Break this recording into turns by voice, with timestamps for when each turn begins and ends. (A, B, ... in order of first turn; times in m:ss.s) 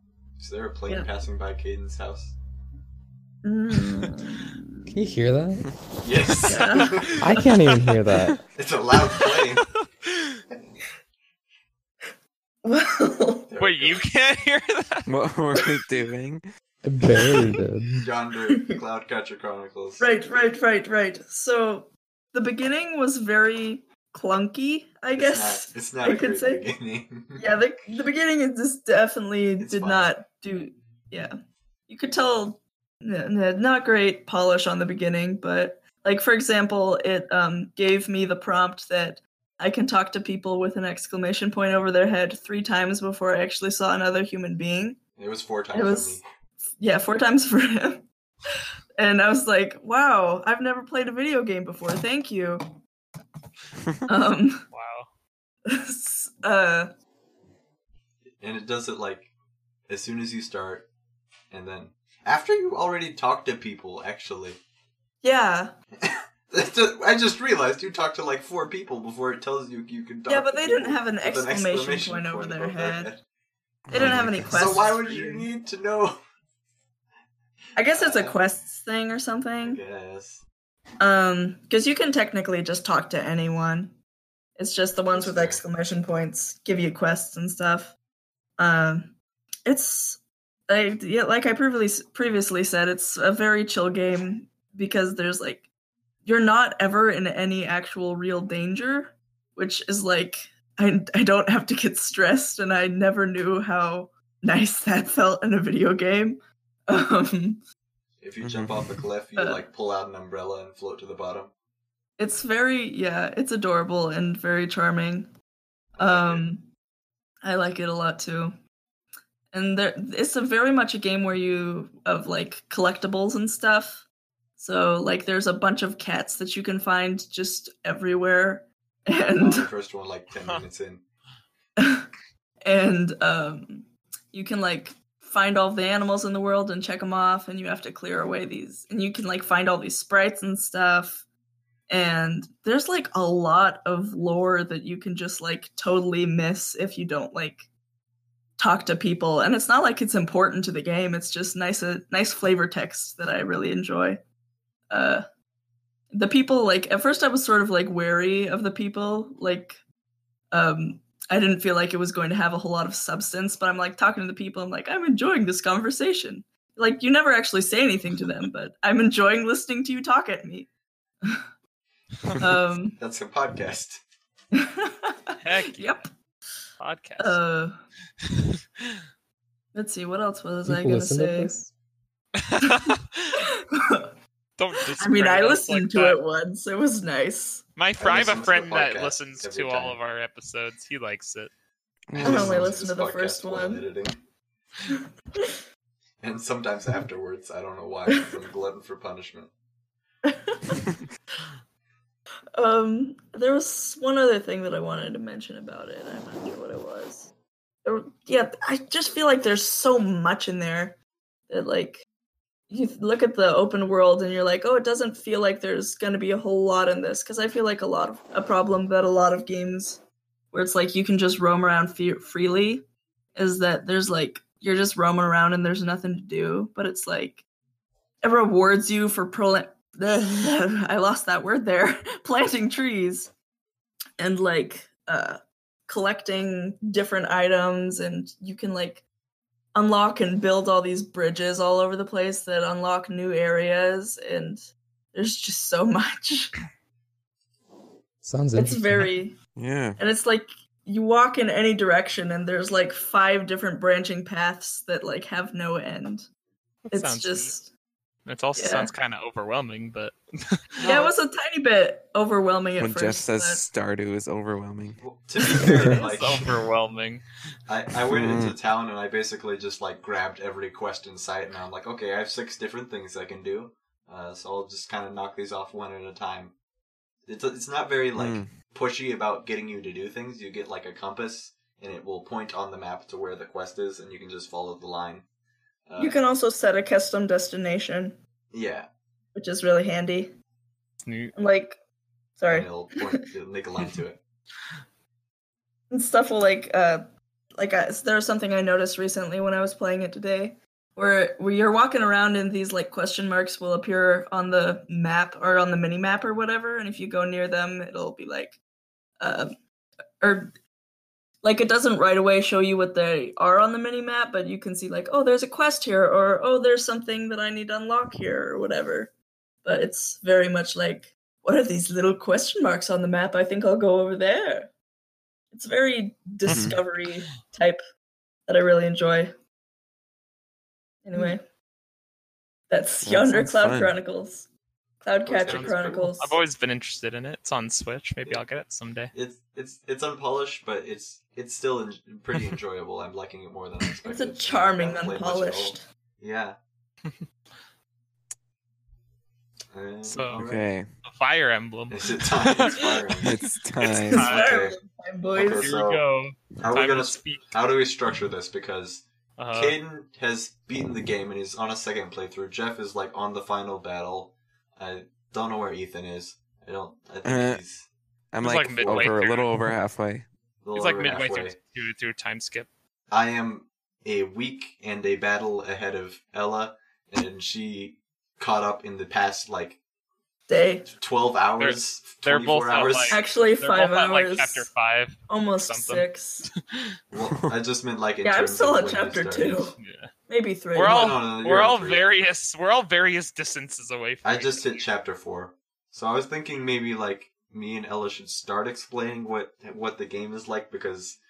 0:00.4-0:02.4 A
0:03.4-0:05.0 B
0:04.9-0:05.7 C
0:06.0-0:07.1 A
0:06.5-0:07.5 B
0:06.5-0:07.1 D
0:07.2-0:08.4 C
0:08.6-0:09.6 A
0:10.1-0:10.4 D
0:12.6-0:13.5 B
0:13.5-0:14.0 A
0:13.6-0:15.1 D
0:15.1-0:16.4 E
0:16.8-0:18.0 C
0:17.1-0:17.5 B
0:18.0-0:20.2 A
0:18.5-0:18.8 B
0:20.0-0:26.7 B
0:25.1-0:27.5 A
0:27.4-0:31.3 B
0:29.6-0:30.1 A
0:31.9-0:45.0 B
0:45.2-0:46.2 A
0:45.7-0:48.0 B
0:49.0-0:52.7 B
0:54.1-0:54.7 B
0:54.7-0:55.1 D
0:55.7-0:56.9 B
0:58.4-0:59.3 A
0:59.9-1:00.9 A
1:01.5-1:04.6 A
1:05.2-1:05.7 B
1:06.0-1:13.2 A
1:10.3-1:13.1 B
1:13.9-1:14.7 E
1:13.9-1:15.5 B
1:14.0-1:16.2 A
1:17.8-1:19.8 B
1:17.9-1:18.4 A
1:19.6-1:20.4 A
1:21.0-1:24.0 B
1:24.6-1:28.0 B
1:25.1-1:25.6 A
1:28.6-1:29.2 B
1:29.7-1:35.7 B
1:36.2-1:47.6 B
1:48.2-1:51.5 A
1:48.4-1:49.0 E
1:49.4-1:49.7 B
1:52.2-1:55.3 B
1:56.0-1:56.5 A
1:56.0-1:56.7 B
1:57.4-1:58.6 B
1:59.5-2:04.1 B
2:04.6-2:09.7 B
2:09.4-2:11.0 A
2:10.3-2:10.6 D
2:11.8-2:12.1 B
2:12.6-2:21.3 B
2:21.9-2:27.7 B
2:28.6-2:34.2 B
2:34.9-2:35.2 B
2:36.1-2:39.8 B
2:40.5-2:50.7 B
2:52.4-2:53.0 B
2:53.0-2:54.0 A
2:54.5-2:56.1 B
2:55.4-2:56.0 D
2:56.8-2:57.4 D
2:57.2-2:57.8 B
2:59.7-3:01.6 B
3:00.6-3:01.7 C
3:02.4-3:03.4 D
3:02.6-3:04.1 B
3:04.6-3:06.2 D
3:04.9-3:07.7 B
3:07.8-3:11.5 D
3:08.0-3:10.0 A
3:12.1-3:12.7 E
3:12.2-3:14.2 A
3:12.2-3:13.9 B
3:14.9-3:15.6 B
3:16.2-3:19.5 A
3:20.2-3:20.8 B
3:22.6-3:27.3 B
3:27.8-3:31.0 B
3:31.5-3:32.0 B
3:32.7-3:47.4 B
3:48.2-3:53.3 B
3:54.2-3:59.0 B
3:59.8-4:06.6 B
4:08.2-4:09.1 C
4:08.5-4:09.4 B
4:09.6-4:10.0 E
4:10.0-4:16.3 B
4:16.9-4:17.5 D
4:16.9-4:17.7 B
4:18.3-4:20.6 D
4:18.6-4:18.9 B
4:20.8-4:21.2 A
4:20.8-4:23.6 B
4:22.8-4:25.0 E
4:25.0-4:26.5 A
4:25.6-4:27.2 D
4:27.7-4:36.5 A
4:28.1-4:28.6 E
4:37.3-4:45.2 A
4:38.2-4:38.5 E
4:45.9-4:46.2 A
4:46.0-4:48.2 B
4:48.5-4:48.9 A
4:49.4-4:50.3 B
4:51.0-4:51.3 D
4:51.4-4:51.8 B
4:52.4-4:53.2 B
4:52.5-4:54.2 A
4:55.9-4:57.0 B
4:57.6-5:08.6 B
5:09.2-5:09.5 B
5:10.2-5:10.5 B
5:11.4-5:19.1 B
5:19.6-5:24.7 B
5:25.5-5:27.8 B
5:26.5-5:26.8 E
5:28.5-5:29.3 B
5:31.0-5:31.4 B
5:32.7-5:34.5 B
5:33.0-5:34.0 E
5:35.0-5:36.4 B
5:35.2-5:36.1 A
5:35.5-5:39.1 D
5:39.1-5:46.6 A
5:44.0-5:45.8 B
5:49.7-5:50.7 A
5:50.1-5:50.4 D
5:50.4-5:50.9 E
5:51.0-5:52.8 D
5:51.9-5:53.3 A
5:53.2-5:54.3 E
5:53.9-5:55.7 B
5:54.1-5:54.6 D
5:54.2-5:56.0 A
5:55.5-5:57.5 D
5:56.6-6:07.9 A
5:59.4-5:59.8 D
6:07.2-6:07.6 E
6:08.3-6:10.3 E
6:08.4-6:09.5 D
6:08.8-6:09.2 A
6:10.6-6:11.6 A
6:10.7-6:12.7 D
6:13.1-6:19.8 A
6:20.5-6:20.9 B
6:20.9-6:23.2 A
6:21.6-6:26.1 D
6:23.1-6:24.7 B
6:25.3-6:26.5 B
6:27.1-6:29.7 A
6:28.2-6:31.2 B
6:29.8-6:30.1 D
6:30.7-6:34.8 D
6:30.8-6:32.3 A
6:34.2-6:41.2 A